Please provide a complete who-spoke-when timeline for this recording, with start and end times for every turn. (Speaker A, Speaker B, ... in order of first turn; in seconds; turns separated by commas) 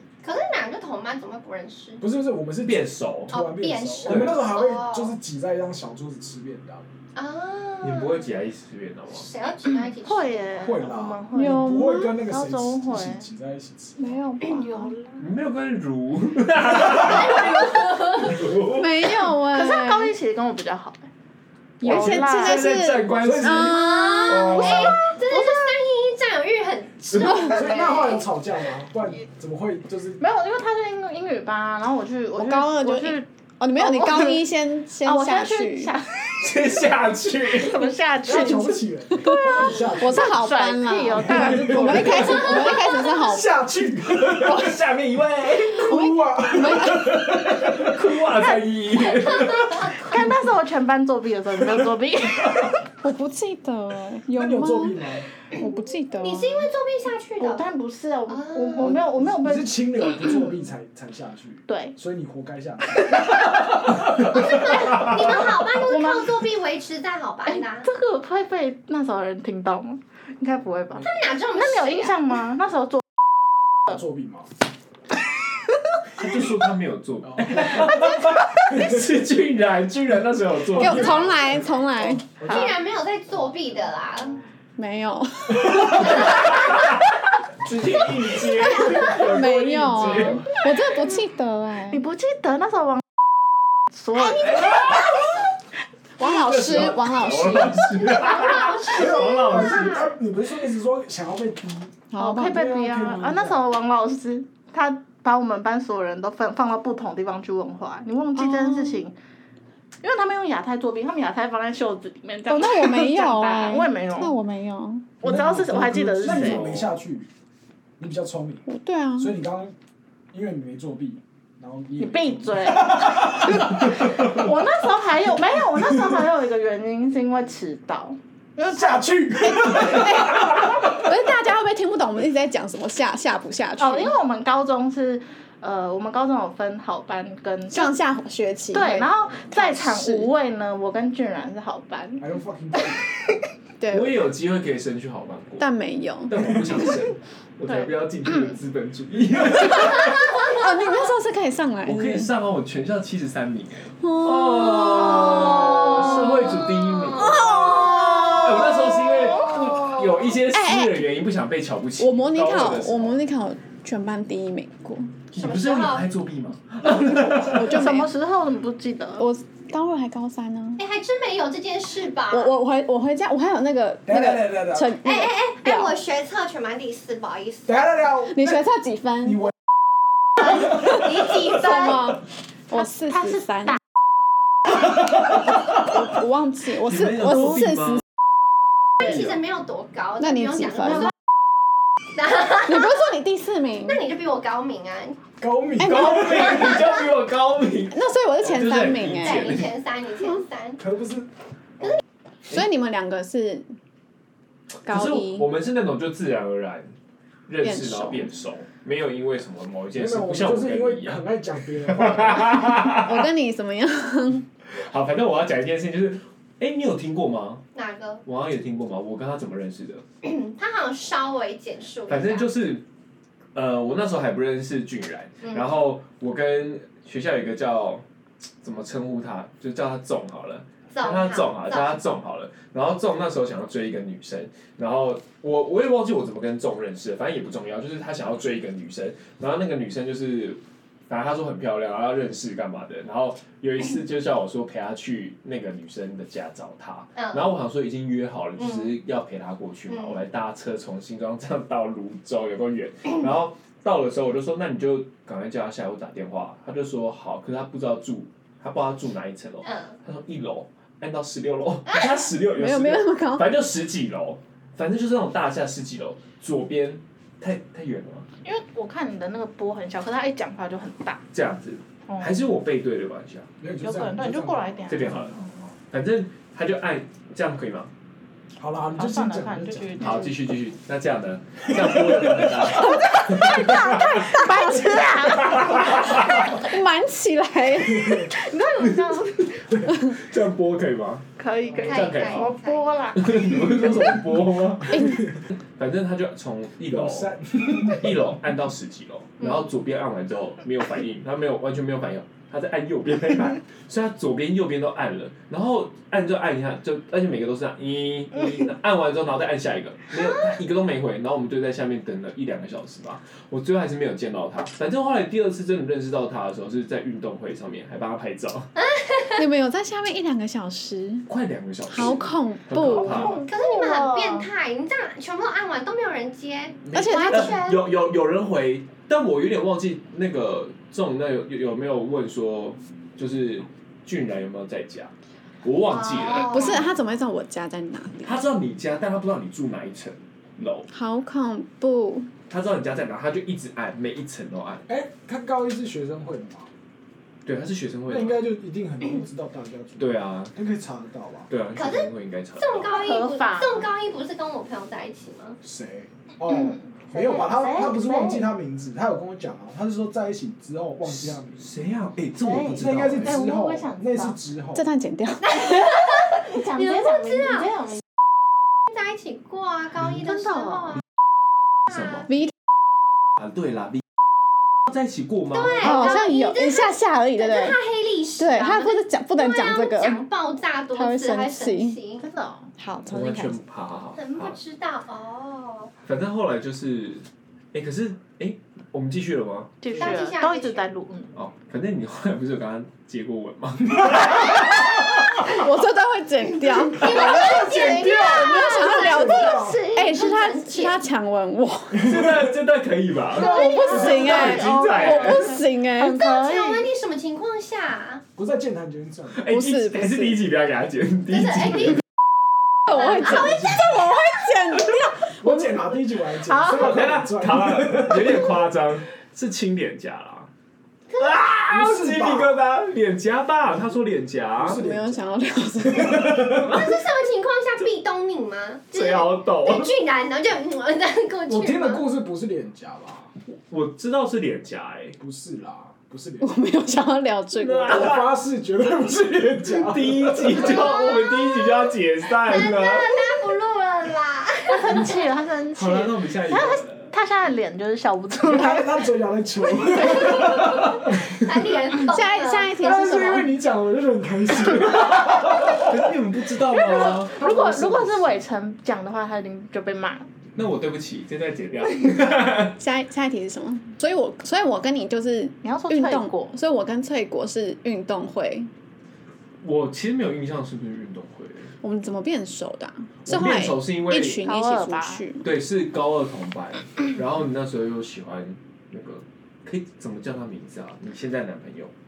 Speaker A: 0.2-2.0, Speaker B: 2.0-6.9, Speaker C: 2.6-3.4, Speaker A: 3.3-5.2, Speaker C: 4.1-4.5, Speaker A: 7.2-8.3, Speaker C: 7.8-9.3, Speaker A: 9.1-10.8, Speaker D: 10.0-13.3, Speaker B: 10.6-14.2, Speaker E: 11.3-12.2, Speaker E: 14.0-15.0, Speaker D: 14.4-15.2, Speaker C: 15.2-19.1, Speaker E: 17.6-20.1, Speaker D: 19.5-21.1, Speaker E: 21.8-24.7, Speaker D: 21.9-22.7, Speaker C: 21.9-23.7, Speaker B: 23.1-24.9, Speaker A: 23.6-28.3, Speaker C: 24.3-24.9, Speaker D: 25.1-25.7, Speaker B: 27.2-30.2, Speaker D: 30.2-34.5, Speaker E: 32.4-35.9, Speaker D: 35.0-36.5, Speaker C: 36.4-37.9, Speaker D: 37.5-42.5, Speaker B: 38.2-40.4, Speaker E: 39.2-43.5, Speaker B: 41.3-44.8, Speaker C: 41.3-42.8, Speaker C: 44.2-45.8, Speaker B: 45.5-48.0, Speaker E: 45.7-47.2, Speaker C: 46.7-50.0, Speaker A: 49.2-50.2, Speaker D: 50.0-52.7, Speaker E: 53.0-56.7, Speaker B: 54.3-55.3, Speaker A: 56.2-57.7, Speaker D: 57.4-59.9, Speaker A: 58.3-58.9, Speaker B: 58.8-64.5, Speaker D: 61.7-62.0, Speaker A: 64.2-67.9, Speaker D: 65.7-66.4, Speaker D: 67.5-73.0, Speaker A: 71.0-72.1, Speaker B: 73.9-74.5, Speaker C: 76.2-81.4, Speaker B: 77.2-78.0, Speaker E: 80.7-82.4, Speaker B: 80.8-81.2, Speaker B: 82.4-82.8, Speaker A: 82.4-84.4, Speaker E: 84.8-86.3, Speaker C: 85.9-86.8, Speaker C: 87.6-90.6, Speaker E: 88.6-92.0, Speaker A: 90.7-91.1, Speaker D: 91.9-93.0, Speaker D: 93.9-95.0, Speaker A: 94.2-95.1, Speaker E: 96.2-98.1, Speaker C: 96.2-99.9, Speaker A: 98.1-100.1, Speaker B: 98.9-103.6, Speaker E: 102.1-103.1, Speaker D: 102.2-109.2, Speaker E: 108.4-109.0, Speaker D: 110.0-114.3, Speaker E: 112.5-115.2, Speaker D: 115.2-116.7, Speaker B: 115.3-117.3, Speaker C: 115.4-117.0, Speaker B: 118.0-118.7, Speaker E: 118.7-119.4, Speaker B: 119.2-119.7, Speaker B: 120.3-123.6, Speaker D: 122.0-129.0, Speaker B: 128.7-130.8, Speaker E: 129.4-134.2, Speaker D: 133.8-137.9, Speaker E: 137.7-140.3, Speaker D: 138.7-142.2, Speaker B: 142.2-143.1, Speaker E: 143.8-144.2, Speaker C: 143.9-145.7, Speaker E: 145.6-146.6, Speaker C: 146.3-150.4, Speaker D: 147.7-148.5, Speaker E: 150.3-152.3, Speaker C: 151.8-157.5, Speaker E: 154.0-155.4, Speaker A: 157.2-158.8, Speaker E: 157.5-158.1, Speaker C: 158.3-163.2, Speaker E: 160.5-161.1, Speaker E: 162.0-165.2, Speaker C: 165.3-167.7, Speaker A: 165.4-166.1, Speaker E: 167.3-168.1, Speaker D: 167.4-169.2, Speaker E: 169.2-170.8, Speaker A: 170.8-172.5, Speaker E: 172.3-176.0, Speaker B: 174.1-174.9, Speaker A: 175.0-177.8, Speaker B: 177.7-178.6, Speaker E: 178.3-179.5, Speaker A: 180.8-182.1, Speaker E: 181.4-183.8, Speaker E: 185.9-188.0, Speaker C: 186.8-188.0, Speaker A: 189.0-191.1, Speaker E: 190.2-191.1, Speaker A: 192.2-193.0, Speaker E: 192.6-194.1, Speaker A: 193.8-195.2, Speaker B: 195.4-196.7, Speaker E: 195.8-196.6, Speaker C: 195.8-199.7, Speaker E: 197.9-199.5, Speaker A: 199.2-200.8, Speaker B: 200.8-201.3, Speaker E: 202.5-203.7, Speaker C: 204.8-206.9, Speaker E: 204.9-205.5, Speaker C: 207.5-211.2, Speaker E: 207.6-208.3, Speaker B: 209.9-212.8, Speaker C: 211.9-213.3, Speaker E: 212.8-214.5, Speaker C: 214.7-217.6, Speaker A: 217.8-218.2, Speaker C: 218.2-220.0, Speaker A: 220.2-222.5, Speaker C: 222.1-222.8, Speaker C: 223.6-228.0, Speaker C: 228.6-268.3, Speaker A: 230.9-232.0, Speaker A: 247.2-247.4, Speaker A: 248.6-248.9, Speaker A: 249.9-250.2, Speaker A: 259.6-260.0, Speaker E: 262.5-263.5, Speaker D: 268.4-271.2, Speaker C: 271.3-273.5, Speaker B: 273.6-275.3, Speaker D: 273.8-275.3, Speaker C: 274.9-277.9, Speaker B: 278.6-280.0, Speaker D: 279.0-280.3, Speaker C: 280.0-284.4, Speaker D: 283.1-286.4, Speaker C: 285.2-286.5, Speaker E: 286.5-288.4, Speaker D: 288.3-289.6, Speaker C: 288.8-289.2, Speaker C: 289.8-291.3, Speaker D: 291.4-293.5, Speaker C: 291.8-292.6, Speaker A: 291.8-293.1, Speaker C: 293.1-318.7, Speaker E: 294.9-295.3, Speaker B: 296.9-298.2, Speaker A: 318.8-319.4, Speaker E: 319.4-321.3, Speaker C: 321.3-323.5, Speaker E: 321.9-323.4, Speaker D: 323.1-324.5, Speaker A: 323.4-327.8, Speaker C: 326.9-335.1, Speaker E: 326.9-327.6, Speaker C: 335.6-336.8, Speaker A: 335.9-336.9, Speaker E: 336.4-338.4, Speaker C: 338.2-340.9, Speaker E: 340.9-342.3, Speaker C: 342.5-344.9, Speaker B: 344.9-346.7, Speaker C: 347.4-348.4, Speaker B: 348.1-351.5, Speaker C: 350.0-350.5, Speaker C: 351.5-352.9, Speaker A: 351.8-355.6, Speaker D: 352.9-353.9, Speaker B: 355.6-361.6, Speaker D: 356.5-358.4, Speaker C: 361.1-363.3, Speaker D: 362.4-364.4, Speaker B: 362.7-364.9, Speaker E: 364.8-365.8, Speaker A: 365.4-367.7, Speaker D: 366.4-368.0, Speaker A: 368.9-371.0, Speaker D: 370.5-370.8, Speaker C: 371.9-372.3, Speaker C: 373.4-374.0, Speaker C: 374.9-376.1, Speaker A: 375.5-382.2, Speaker E: 375.8-377.8, Speaker E: 378.4-380.2, Speaker E: 380.9-382.0, Speaker D: 382.2-382.7, Speaker E: 382.8-383.6, Speaker C: 383.0-384.6, Speaker A: 384.2-385.9, Speaker C: 386.1-389.9, Speaker D: 389.8-391.3, Speaker A: 389.9-390.9, Speaker C: 391.3-395.5, Speaker E: 395.2-402.2, Speaker A: 396.9-401.0, Speaker B: 397.0-399.8, Speaker C: 402.0-405.6, Speaker A: 403.4-404.2, Speaker D: 403.4-406.9, Speaker E: 403.4-406.2, Speaker A: 406.1-408.2, Speaker B: 408.4-409.5, Speaker C: 409.4-412.0, Speaker E: 409.5-410.4, Speaker A: 411.6-411.9, Speaker E: 412.9-415.8, Speaker A: 412.9-413.8, Speaker B: 413.3-414.0, Speaker B: 415.3-418.5, Speaker D: 416.5-416.9, Speaker C: 416.7-420.5, Speaker A: 421.1-421.4, Speaker C: 421.2-424.8, Speaker B: 421.7-422.6, Speaker B: 424.6-425.3, Speaker E: 424.7-426.6, Speaker B: 426.0-426.4, Speaker C: 426.0-426.9, Speaker A: 426.5-432.1, Speaker C: 428.9-429.9, Speaker B: 431.5-433.3, Speaker C: 433.7-435.2, Speaker B: 435.2-436.6, Speaker E: 436.4-438.1, Speaker C: 437.5-438.3, Speaker B: 437.9-440.6, Speaker C: 439.7-443.2, Speaker A: 440.5-441.9, Speaker A: 442.4-445.2, Speaker D: 444.7-448.9, Speaker C: 445.8-447.1, Speaker B: 448.4-451.2, Speaker A: 450.3-452.9, Speaker E: 452.0-453.5, Speaker B: 452.8-456.0, Speaker C: 454.9-458.2, Speaker D: 456.7-460.3, Speaker B: 457.5-457.9, Speaker C: 460.6-462.8, Speaker E: 462.8-468.7, Speaker D: 465.6-466.6, Speaker C: 469.6-471.7, Speaker E: 471.8-475.5, Speaker C: 473.2-474.4, Speaker D: 474.4-475.2, Speaker C: 475.4-481.9